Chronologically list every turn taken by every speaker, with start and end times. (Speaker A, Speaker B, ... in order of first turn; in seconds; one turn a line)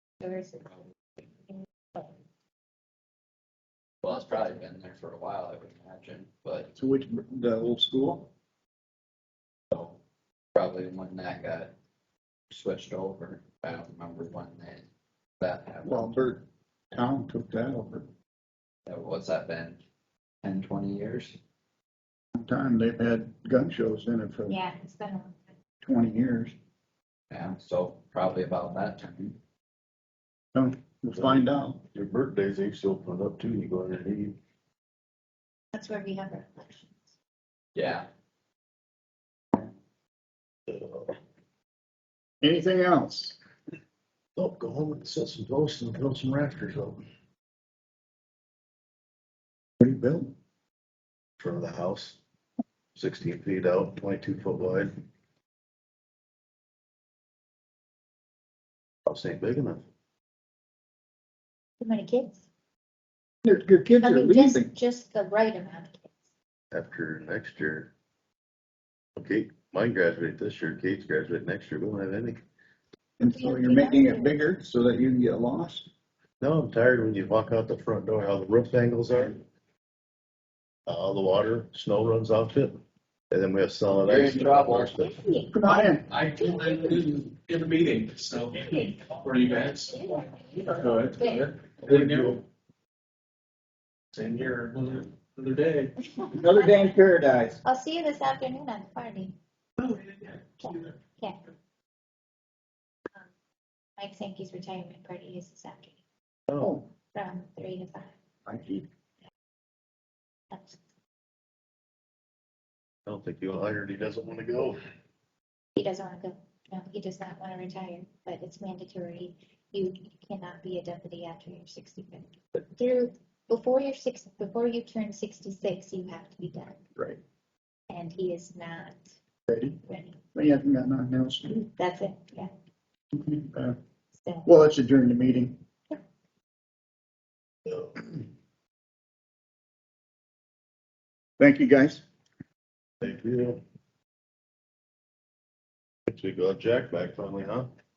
Speaker A: 0.2-0.8
Speaker A: 1.5-2.1
Speaker B: 4.0-6.7
Speaker A: 4.1-4.5
Speaker C: 6.8-8.3
Speaker B: 9.7-10.0
Speaker B: 10.6-11.7
Speaker B: 12.5-14.9
Speaker B: 15.4-16.1
Speaker C: 15.8-18.1
Speaker B: 18.9-19.8
Speaker B: 20.4-21.4
Speaker C: 22.4-24.6
Speaker A: 24.5-25.5
Speaker C: 25.8-26.6
Speaker B: 27.3-29.4
Speaker C: 30.5-31.8
Speaker D: 31.1-34.4
Speaker A: 35.7-37.1
Speaker B: 37.8-38.1
Speaker D: 40.7-41.1
Speaker C: 42.4-43.4
Speaker D: 44.4-47.0
Speaker C: 49.8-50.4
Speaker D: 51.4-52.2
Speaker D: 53.0-55.0
Speaker D: 59.1-59.9
Speaker A: 61.8-62.5
Speaker C: 63.5-64.7
Speaker A: 64.0-66.1
Speaker D: 66.7-67.9
Speaker D: 69.2-72.4
Speaker C: 73.2-75.9
Speaker A: 73.3-74.4
Speaker D: 76.4-79.4
Speaker D: 80.9-85.2
Speaker B: 84.0-84.9
Speaker A: 85.0-87.1
Speaker C: 85.5-86.0
Speaker E: 86.1-90.0
Speaker A: 88.5-91.5
Speaker E: 90.8-92.4
Speaker E: 94.1-95.9
Speaker A: 96.1-96.9
Speaker C: 96.3-97.6
Speaker A: 97.6-99.3
Speaker E: 99.8-100.1
Speaker A: 100.6-101.4
Speaker A: 104.0-106.0
Speaker D: 106.5-106.8
Speaker C: 106.6-106.8
Speaker A: 107.1-108.1
Speaker C: 108.5-108.9
Speaker A: 110.5-110.8
Speaker D: 113.1-114.8
Speaker A: 115.8-126.8
Speaker A: 127.9-129.2
Speaker C: 129.5-129.8
Speaker A: 129.8-130.2
Speaker C: 130.3-131.7
Speaker A: 131.8-132.5
Speaker C: 133.2-133.8
Speaker A: 134.2-134.5
Speaker C: 134.4-135.6
Speaker D: 137.7-138.1
Speaker C: 141.4-142.0
Speaker D: 143.0-143.6
Speaker D: 146.1-147.7